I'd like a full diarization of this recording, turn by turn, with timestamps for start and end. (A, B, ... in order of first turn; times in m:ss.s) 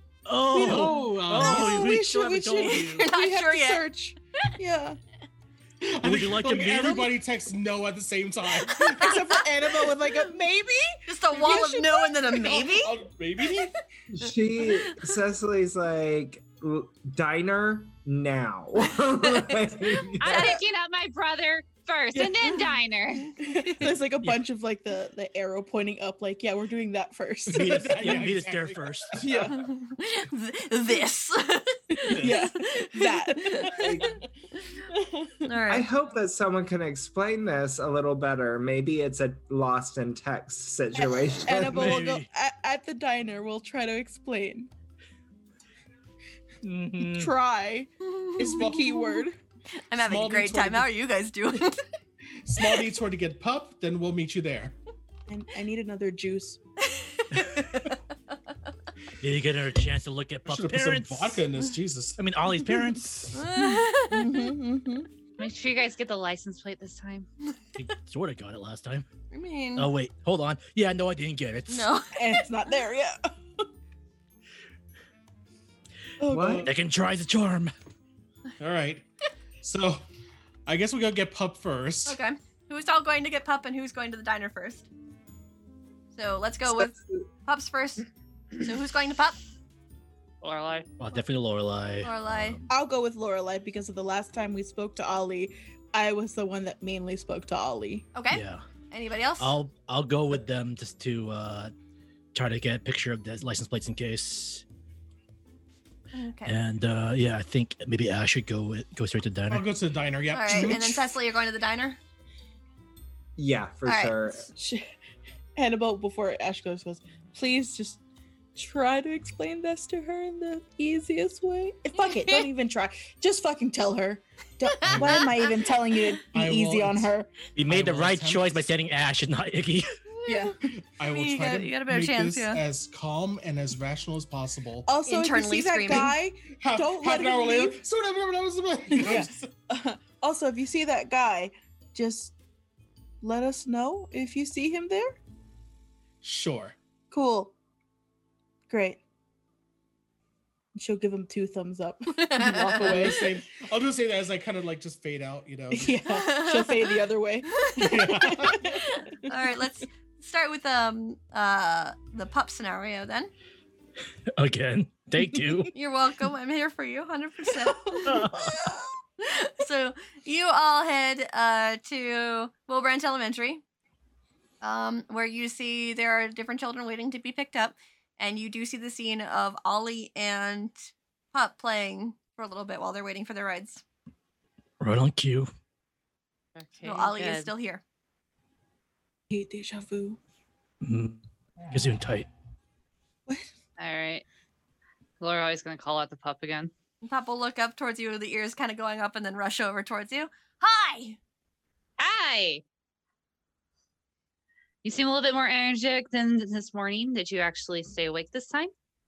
0:00.3-0:03.1 A
0:00.5-0:01.9 B
0:00.6-0:05.0 C
0:02.6-0:03.8 D
0:05.8-0:09.2 B
0:06.0-0:07.1 A
0:08.7-0:09.9 D
0:08.8-0:12.3 C
0:11.1-0:13.0 D
0:12.4-0:13.7 B
0:14.1-0:20.6 E
0:14.7-0:15.0 D
0:20.2-0:23.4 F
0:20.3-0:20.6 D
0:22.1-0:22.7 C
0:23.4-0:28.3 C
0:27.5-0:29.5 B
0:27.5-0:29.2 A
0:29.2-0:29.6 C
0:29.6-0:34.1 D
0:32.1-0:34.2 C
0:32.1-0:32.4 A
0:33.7-0:34.2 E
0:34.9-0:35.4 C
0:35.4-0:35.9 D
0:35.7-0:42.0 E
0:41.0-0:44.7 C
0:41.6-0:42.3 A
0:46.6-0:47.3 A
0:47.0-0:49.4 C
0:48.0-0:49.2 D
0:48.4-0:49.0 B
0:49.8-0:51.8 D
0:50.0-0:50.9 B
0:52.4-0:54.8 B
0:55.3-0:56.6 C
0:56.9-0:57.9 D
0:57.5-0:57.8 A
0:59.2-1:01.4 A
1:00.4-1:02.2 B
1:02.2-1:03.5 A
1:03.3-1:04.5 D
1:04.0-1:05.1 C
1:05.4-1:07.3 F
1:07.8-1:09.1 A
1:09.3-1:09.9 D
1:09.8-1:11.9 A
1:11.7-1:12.7 D
1:12.1-1:13.7 C
1:16.2-1:16.7 C
1:16.3-1:16.7 E
1:16.6-1:17.7 A
1:18.6-1:19.0 B
1:19.6-1:20.0 B
1:20.7-1:22.2 B
1:22.1-1:24.9 D
1:26.2-1:28.1 D
1:26.7-1:27.3 E
1:28.6-1:29.4 D
1:30.4-1:30.9 F
1:31.0-1:32.6 A
1:32.0-1:32.6 D
1:32.7-1:38.1 C
1:38.2-1:39.5 D
1:38.3-1:38.6 A
1:39.4-1:41.7 A
1:42.3-1:44.6 A
1:46.1-1:46.6 D
1:46.5-1:49.7 A
1:49.5-1:51.1 B
1:50.3-1:52.0 D
1:53.4-1:54.5 E
1:53.9-1:54.2 D
1:54.5-1:54.9 C
1:55.6-1:58.0 C
1:58.6-2:07.3 C
2:02.2-2:02.4 D
2:04.8-2:05.3 B
2:05.1-2:05.5 D
2:06.3-2:07.1 B
2:07.6-2:09.9 A
2:07.6-2:08.7 B
2:10.1-2:10.6 D
2:10.3-2:10.6 C
2:11.0-2:14.9 B
2:11.1-2:12.6 D
2:14.9-2:17.8 C
2:15.1-2:16.2 D
2:16.6-2:19.5 B
2:18.9-2:22.4 C
2:23.2-2:25.2 C
2:26.2-2:26.8 B
2:27.1-2:27.5 C
2:28.7-2:29.0 C
2:30.8-2:33.4 C
2:32.2-2:33.1 D
2:32.8-2:36.0 B
2:35.7-2:39.3 C
2:36.1-2:36.9 D
2:37.5-2:43.3 D
2:37.8-2:38.6 B
2:44.4-2:45.7 A
2:45.7-2:48.3 D
2:47.6-2:48.8 C
2:48.0-2:48.6 A
2:49.2-2:53.6 D
2:54.6-3:03.8 D
3:04.8-3:05.5 A
3:06.6-3:07.5 F
3:06.8-3:07.8 D
3:09.3-3:10.2 C
3:10.8-3:11.2 A
3:11.7-3:12.3 A
3:13.8-3:14.2 F
3:15.2-3:16.7 F
3:17.0-3:21.2 D
3:22.0-3:22.6 F
3:24.8-3:28.7 F